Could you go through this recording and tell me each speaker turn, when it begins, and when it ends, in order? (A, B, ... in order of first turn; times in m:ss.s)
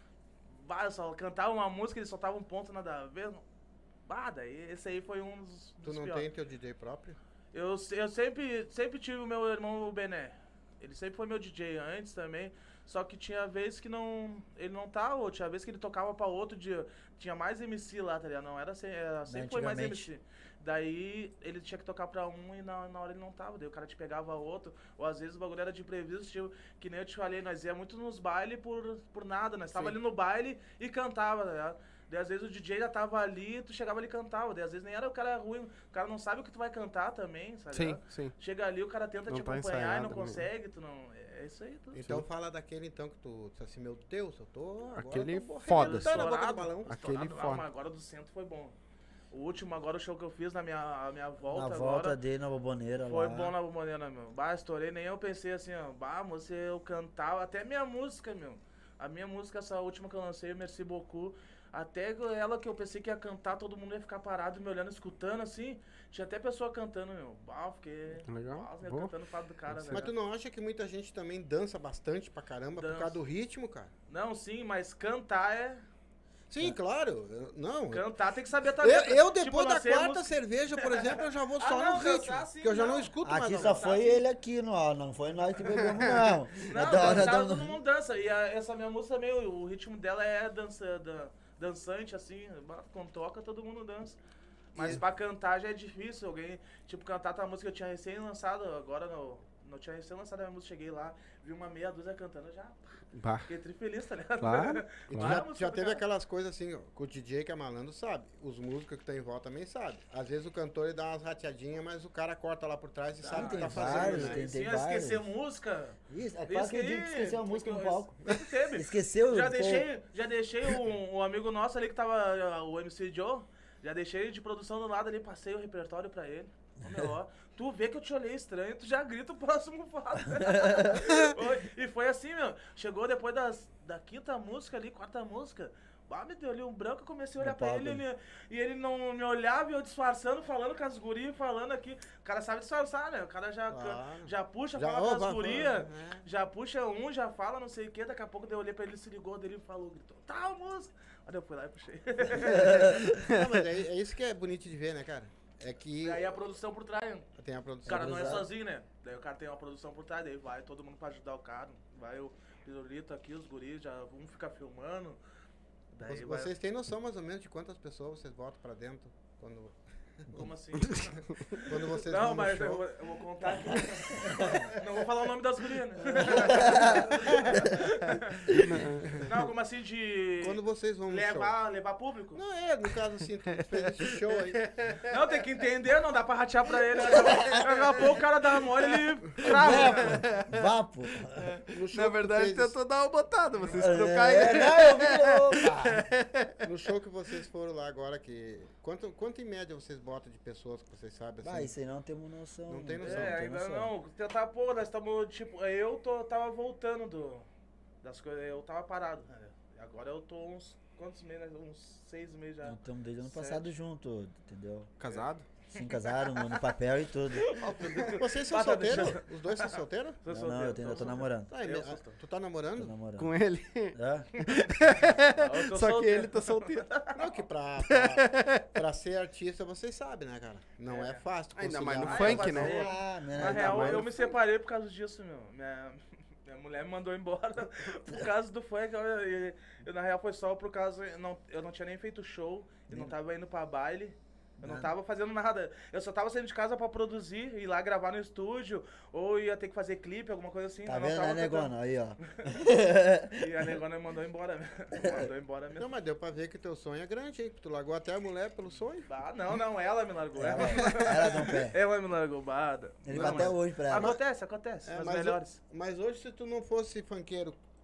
0:00.5-0:03.4 A
0:04.1-0:06.3 A
0:05.8-0:07.2 B
0:07.5-0:42.0 A
0:19.3-0:20.1 C
0:37.7-0:38.3 D
0:39.3-0:40.4 D
0:41.9-0:47.0 B
0:45.0-0:46.3 D
0:45.6-0:48.7 A
0:46.9-0:47.7 D
0:49.3-0:52.2 A
0:51.5-0:53.5 C
0:53.0-1:10.1 A
1:08.3-1:09.1 D
1:09.7-1:10.1 D
1:09.9-1:13.9 B
1:12.8-1:13.2 A
1:14.1-1:15.9 A
1:16.5-1:18.1 B
1:17.9-1:24.2 A
1:18.8-1:24.0 B
1:23.2-1:27.8 C
1:25.8-1:27.0 D
1:26.6-1:34.2 A
1:34.7-1:46.0 A
1:34.8-1:35.0 B
1:43.1-1:43.5 D
1:44.4-1:45.4 D
1:45.1-1:54.4 B
1:53.2-2:33.0 A
1:53.3-1:55.2 C
1:56.1-1:59.9 C
2:10.3-2:11.0 C
2:11.0-2:11.4 B
2:17.4-2:18.0 C
2:23.7-2:26.3 B
2:32.6-2:33.6 D
2:32.6-2:33.1 C
2:32.6-2:36.2 B
2:36.0-2:37.3 A
2:37.4-2:38.4 B
2:37.8-2:38.5 C
2:37.8-2:45.2 A
2:45.9-2:46.5 A
2:46.0-2:52.9 B
2:50.3-2:58.6 A
2:54.2-2:54.6 C
2:56.3-2:57.1 C
2:56.9-2:57.6 B
2:58.5-2:59.4 D
2:58.5-2:58.9 C
2:59.2-3:02.4 A
3:00.4-3:01.6 B
3:02.3-3:04.7 B
3:02.8-3:05.1 D
3:05.1-3:10.2 A
3:07.2-3:07.6 C
3:09.3-3:10.6 D
3:09.4-3:11.5 C
3:11.2-3:16.6 D
3:11.7-3:12.8 B
3:13.7-3:16.1 C
3:16.6-3:21.7 B
3:21.4-3:23.9 C
3:22.7-3:23.4 B
3:23.0-3:27.5 A
3:28.0-3:33.7 A
3:32.6-3:34.9 C
3:35.0-3:35.4 D
3:35.7-3:37.8 C
3:35.8-3:36.7 A
3:37.3-3:42.2 A
3:38.0-3:40.2 B
3:40.3-3:41.5 C
3:41.0-3:42.9 B
3:42.7-3:43.3 C
3:43.2-3:46.9 D
3:43.9-3:44.3 C
3:45.3-3:47.2 A
3:47.1-3:52.8 B
3:47.9-3:48.7 D
3:50.9-3:51.2 A
3:51.6-3:54.2 D
3:52.0-4:11.7 A
3:52.5-3:54.1 C
4:04.6-4:04.9 C
4:10.8-4:13.7 C
4:13.4-4:15.9 A
4:15.0-4:15.3 C
4:15.8-4:19.1 B
4:19.0-4:25.6 A
4:20.4-4:21.8 C
4:20.5-4:21.6 B
4:23.0-4:24.2 C
4:23.1-4:24.2 B
4:24.8-4:27.6 B